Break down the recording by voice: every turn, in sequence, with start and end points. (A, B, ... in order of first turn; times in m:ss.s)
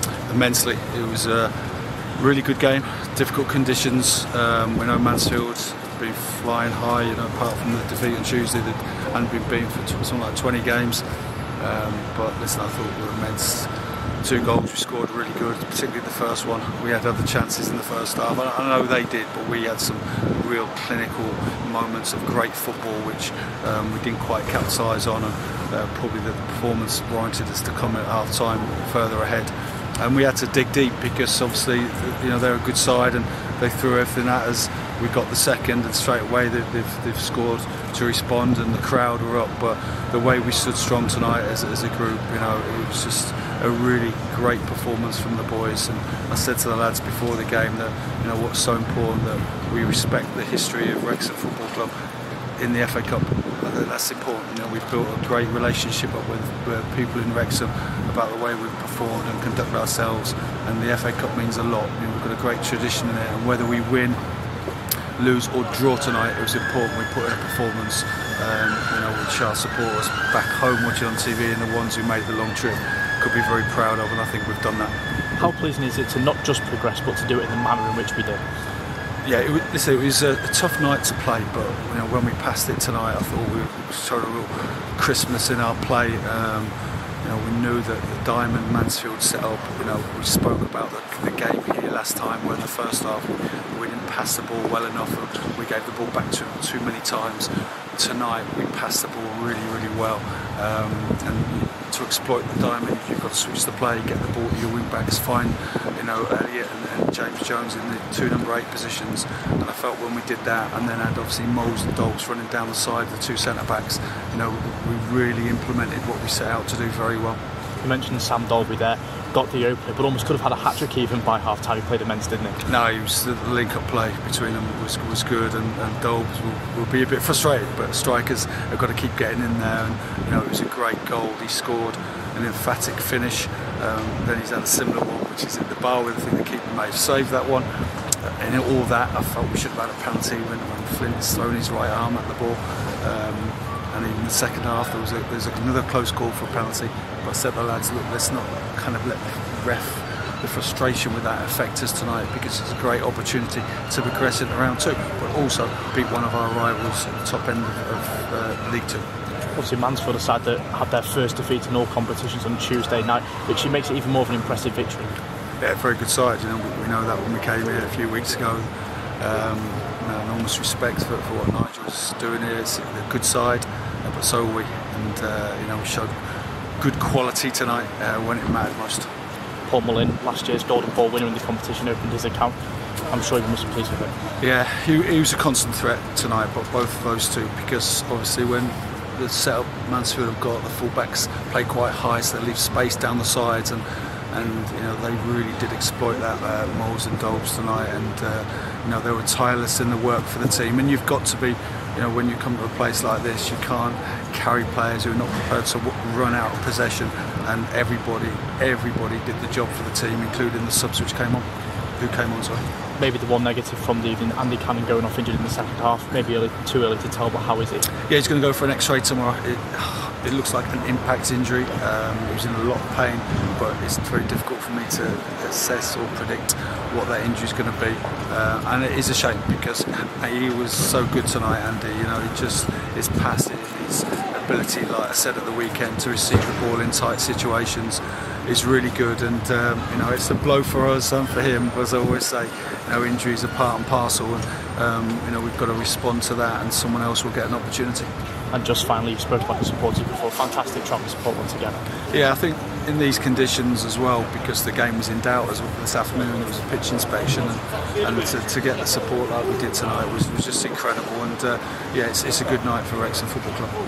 0:00.3-0:01.5 A
0:02.2-0:11.0 A
0:11.6-0:13.7 A
0:14.2-0:51.9 A
0:52.6-1:04.2 A
1:05.2-1:14.9 A
1:15.4-1:18.4 B
1:19.2-1:57.4 A
1:57.8-2:02.6 B
2:02.6-2:17.6 A
2:18.2-2:39.0 A
2:39.5-2:45.1 B
2:45.6-2:48.7 A
2:49.2-2:56.1 A
2:56.8-2:59.1 A
2:59.7-3:02.6 B
3:03.1-3:04.1 B
3:04.4-3:31.4 A
3:32.0-3:32.6 A
3:33.0-3:37.9 B
3:38.1-4:08.1 A
4:08.5-4:11.8 B
4:12.1-4:23.7 A